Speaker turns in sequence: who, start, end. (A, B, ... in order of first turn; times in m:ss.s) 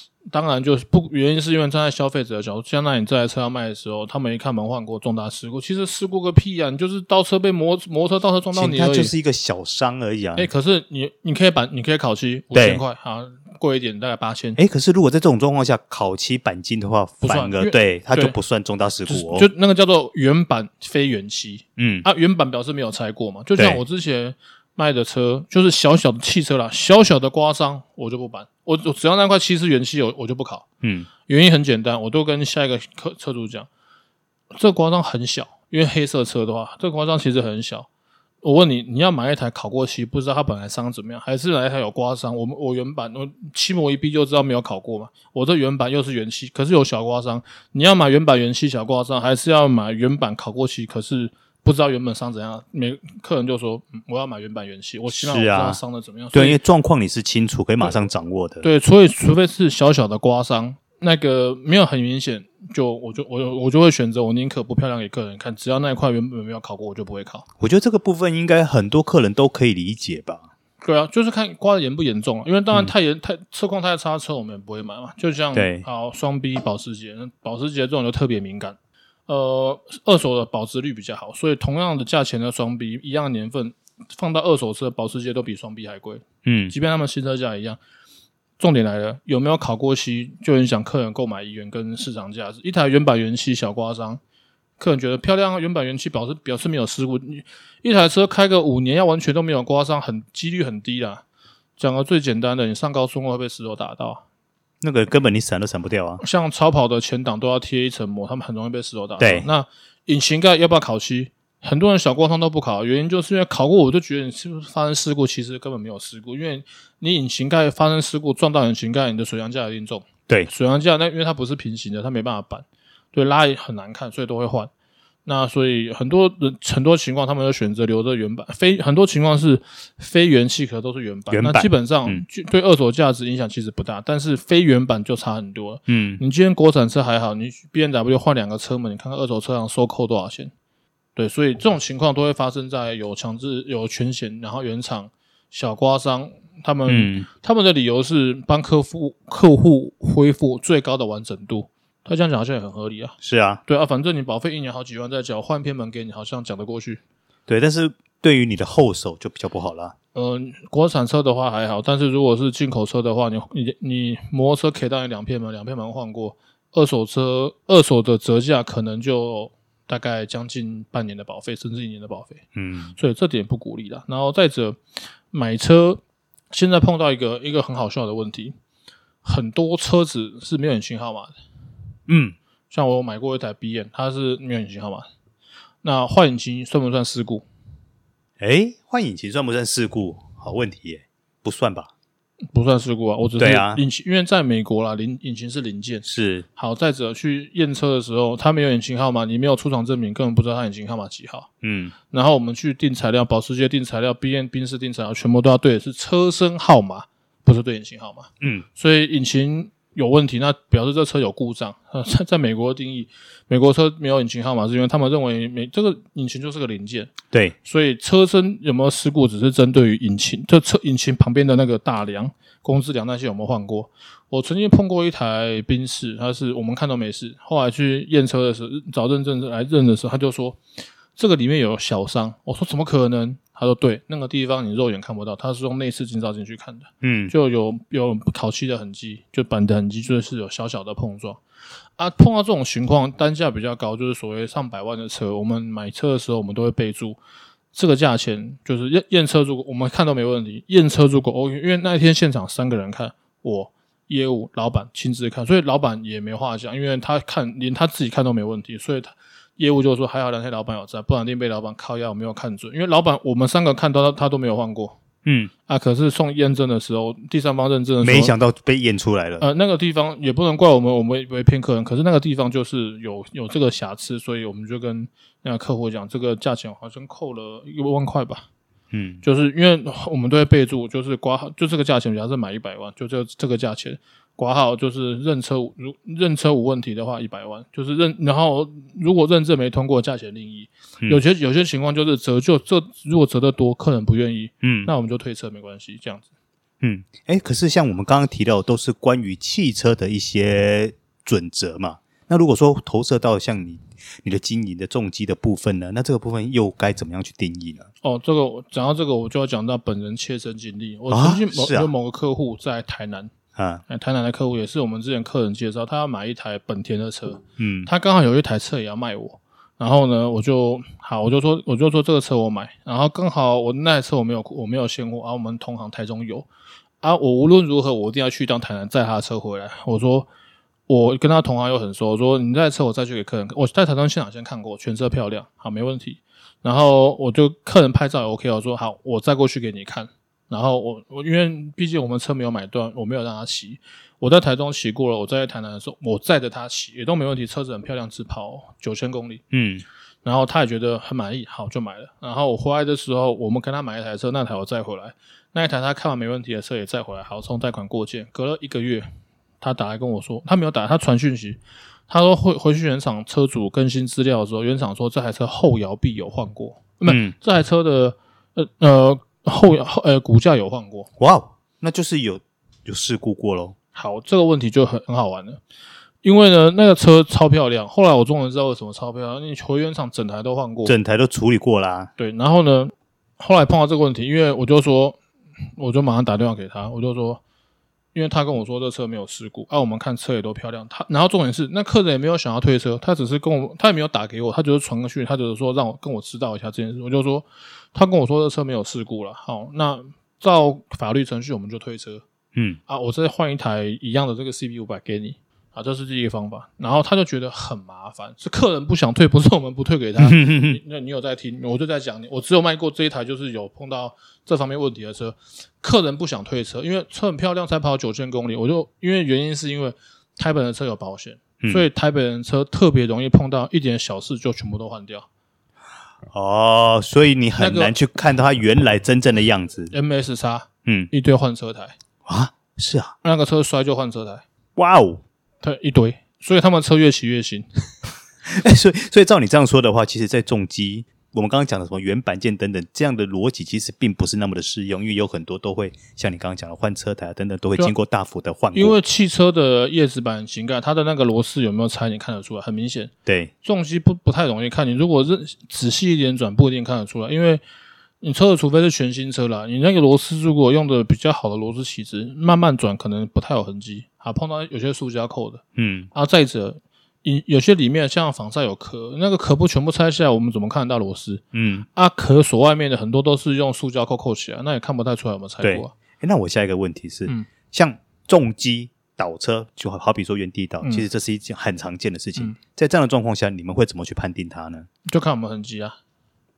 0:00.3-0:09.1 A
0:08.5-0:10.5 B
0:10.4-0:14.6 A
0:12.5-0:12.8 B
0:14.6-0:19.5 B
0:17.2-0:18.4 A
0:19.1-0:30.6 A
0:21.8-0:22.1 B
0:23.6-0:23.8 B
0:30.8-0:31.1 B
0:31.2-0:33.7 A
0:34.5-0:37.9 A
0:38.4-0:56.6 A
0:55.1-0:55.8 B
0:56.3-0:58.6 B
0:58.6-1:07.4 A
1:07.6-1:10.5 B
1:10.8-1:27.8 A
1:15.5-1:15.8 B
1:26.4-1:26.7 B
1:28.6-1:34.2 A
1:34.8-1:41.2 A
1:41.8-1:44.2 A
1:44.8-1:46.2 B
1:46.2-2:04.7 A
1:49.2-1:49.5 B
2:05.2-2:20.5 A
2:11.3-2:12.2 B
2:15.9-2:16.2 B
2:21.2-2:37.0 A
2:26.9-2:27.3 B
2:33.2-2:33.6 B
2:37.5-2:39.9 B
2:40.1-2:52.4 A
2:52.6-2:52.9 B
2:53.0-2:54.8 A
2:55.3-2:58.6 A
2:59.2-3:01.3 A
3:02.1-3:02.4 B
3:02.7-3:05.0 A
3:05.8-3:07.4 A
3:08.4-3:11.9 B
3:12.5-3:21.5 A
3:13.4-3:13.8 B
3:16.1-3:16.4 B
3:21.6-3:21.9 B
3:22.1-3:50.6 A
3:51.2-4:01.4 A
3:57.0-3:57.3 B
4:02.0-4:07.2 A
4:07.7-4:25.0 A
4:25.2-4:25.5 B
4:25.7-4:28.4 A
4:28.0-4:29.4 B
4:29.4-4:38.5 A
4:38.9-4:39.2 B
4:39.2-4:56.2 A
4:54.6-4:54.9 B
4:56.8-5:07.9 B
5:08.0-5:13.3 A
5:11.1-5:11.9 B
5:13.6-5:13.8 B
5:13.9-5:26.5 A
5:17.6-5:17.9 B
5:27.0-5:30.3 A
5:30.9-5:49.4 A
5:49.5-5:49.8 B
5:50.2-5:59.0 A
5:59.6-6:11.1 A
6:07.0-6:07.4 B
6:11.2-6:13.8 B
6:13.9-6:15.6 A
6:16.2-6:21.0 A
6:20.8-6:22.1 B
6:22.2-6:25.2 A
6:25.8-6:27.4 A
6:28.1-6:42.2 A
6:42.9-7:05.2 A
6:50.2-6:50.8 B
7:01.6-7:01.9 B
7:06.3-7:09.9 B
7:07.6-7:08.0 A
7:09.9-7:12.0 A
7:10.9-7:11.1 B
7:12.2-7:13.1 B
7:13.2-7:14.4 A
7:14.8-7:15.2 B
7:15.6-7:17.6 A
7:18.5-7:29.0 B
7:28.7-7:37.6 A
7:33.2-7:33.5 B
7:38.2-7:45.6 A
7:45.8-7:46.1 B
7:46.1-7:51.4 A
7:51.5-7:51.9 B
7:52.0-7:55.9 A
7:55.6-8:04.9 B
8:00.8-8:01.1 A
8:05.0-8:06.0 A